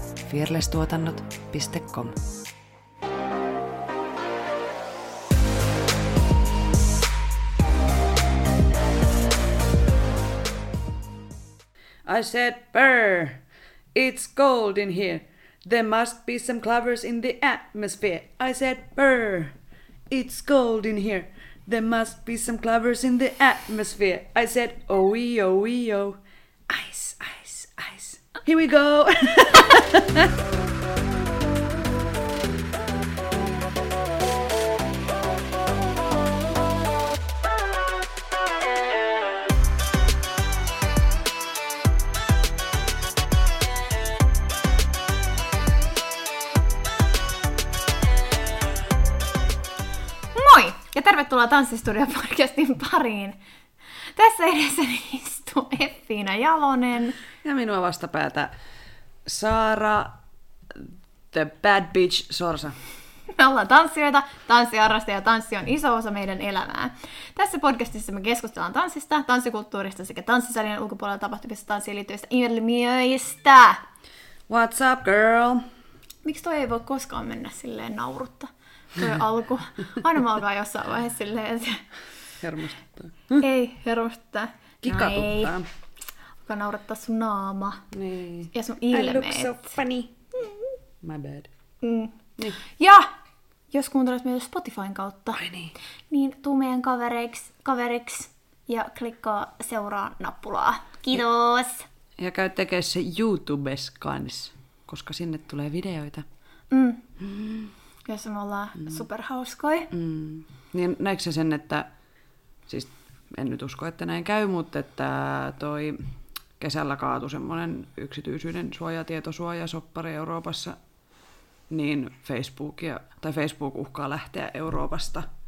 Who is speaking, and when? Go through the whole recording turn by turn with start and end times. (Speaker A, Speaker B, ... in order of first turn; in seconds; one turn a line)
Speaker A: 0.2-2.2
Speaker B: 12.0-13.4
Speaker B: 13.9-19.6
Speaker B: 20.1-30.3
Speaker C: 50.3-53.4
Speaker C: 54.0-57.2
Speaker B: 57.4-58.5
Speaker B: 59.2-60.2
Speaker B: 60.7-62.8
Speaker C: 63.3-73.8
Speaker B: 74.5-75.7
Speaker C: 76.2-81.9
Speaker B: 82.4-83.4
Speaker C: 83.4-85.5
Speaker B: 84.8-85.7
Speaker C: 86.4-87.8
Speaker B: 87.9-90.1
Speaker C: 88.5-89.7
Speaker C: 90.3-90.7
Speaker B: 91.0-91.5
Speaker C: 91.8-93.1
Speaker C: 93.7-95.4
Speaker B: 95.3-95.7
Speaker C: 96.1-101.9
Speaker B: 102.2-106.2
Speaker C: 106.7-107.0
Speaker B: 107.2-107.7
Speaker C: 108.0-109.9
Speaker B: 109.9-111.9
Speaker B: 112.7-120.8
Speaker B: 121.7-125.3